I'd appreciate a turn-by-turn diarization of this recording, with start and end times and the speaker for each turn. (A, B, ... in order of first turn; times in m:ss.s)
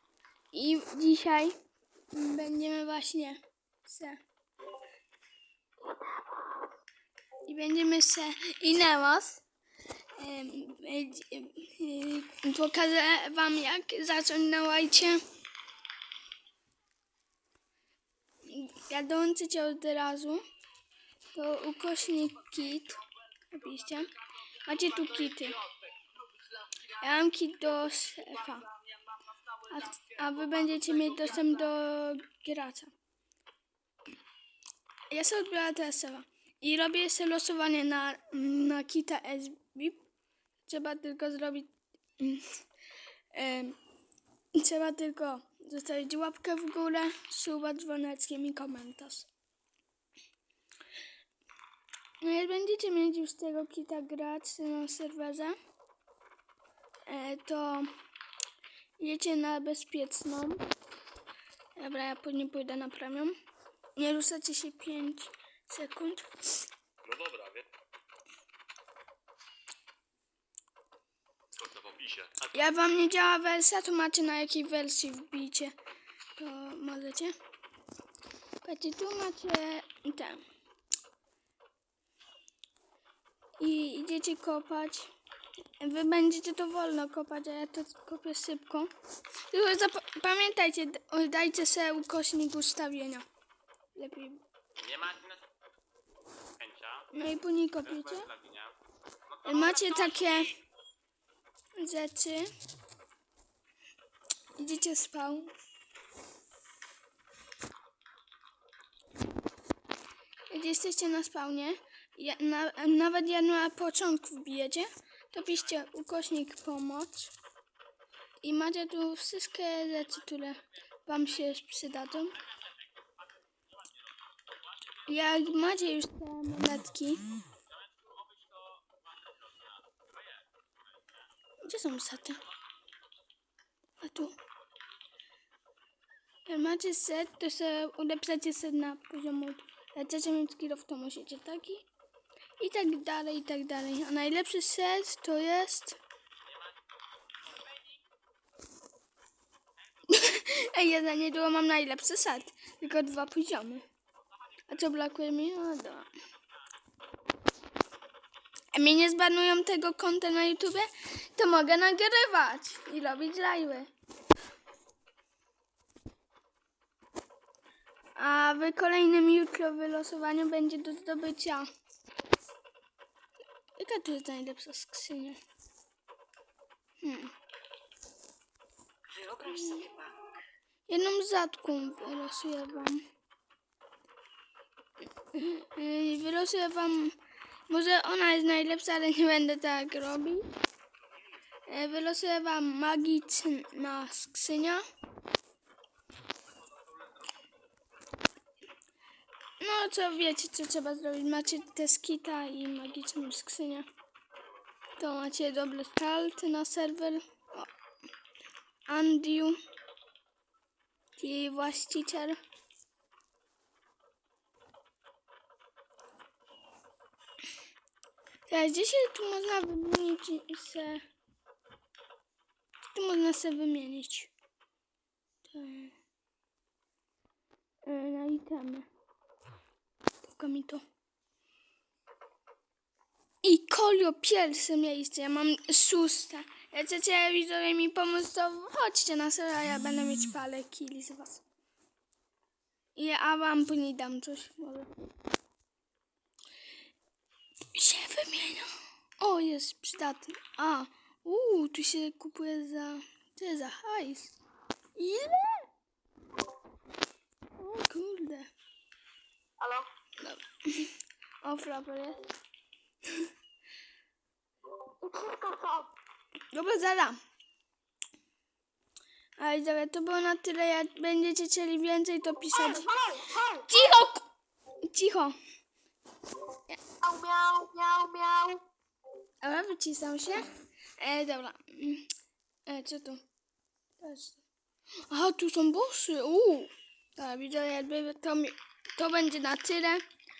0:00.5-0:01.5 A
0:02.1-0:04.2 A
0:07.4-0:09.4 A
0:10.2-0:15.2 A
0:18.5-0:20.4 A
0:21.3-0:25.7 A
0:26.8-0:28.7 A
0:29.6-0:32.9 A
0:35.1-0:40.0 A
0:40.7-0:42.6 A
0:43.3-0:43.8 A
0:44.5-0:49.3 A
0:52.2-0:55.5 A
0:57.1-0:57.9 A
0:59.0-1:00.6 A
1:01.8-1:03.3 A
1:04.0-1:06.6 A
1:07.0-1:07.7 B
1:11.6-1:12.4 B
1:12.4-1:15.8 A
1:16.4-1:17.3 A
1:18.6-1:20.4 A
1:23.6-1:25.1 A
1:25.8-1:28.9 A
1:29.5-1:33.2 A
1:33.9-1:34.4 A
1:34.8-1:35.4 B
1:36.6-1:37.0 B
1:37.1-1:38.3 A
1:38.3-1:38.7 B
1:39.4-1:40.6 A
1:41.8-1:42.5 A
1:44.6-1:45.5 A
1:50.5-1:57.3 A
1:58.4-2:02.4 A
2:05.0-2:07.3 A
2:08.0-2:08.8 B
2:11.6-2:12.4 A
2:14.0-2:14.4 A
2:16.4-2:21.9 A
2:22.6-2:26.0 A
2:30.0-2:33.8 A
2:34.7-2:36.1 A
2:38.7-2:43.9 A
2:48.2-2:51.7 A
2:53.8-2:55.4 A
2:57.0-2:57.3 A
2:59.4-3:00.1 A
3:00.9-3:03.0 A
3:05.3-3:07.2 A
3:07.7-3:10.4 A
3:11.7-3:14.8 A
3:19.6-3:23.9 A
3:25.0-3:27.7 A
3:28.9-3:29.6 A
3:31.2-3:32.4 A
3:38.5-3:41.0 A
3:42.9-3:44.3 A
3:45.4-3:45.9 A
3:47.8-3:48.9 A
3:50.2-3:50.8 A
3:53.4-4:01.4 A
4:03.0-4:04.9 A
4:07.7-4:14.4 A
4:15.0-4:15.7 A
4:17.6-4:18.5 A
4:20.2-4:22.3 A
4:25.0-4:25.9 C
4:26.5-4:27.2 A
4:29.4-4:34.3 A
4:34.9-4:35.4 A
4:37.0-4:38.6 C
4:39.4-4:42.1 A
4:42.6-4:43.2 A
4:44.0-4:44.4 A
4:45.1-4:50.0 A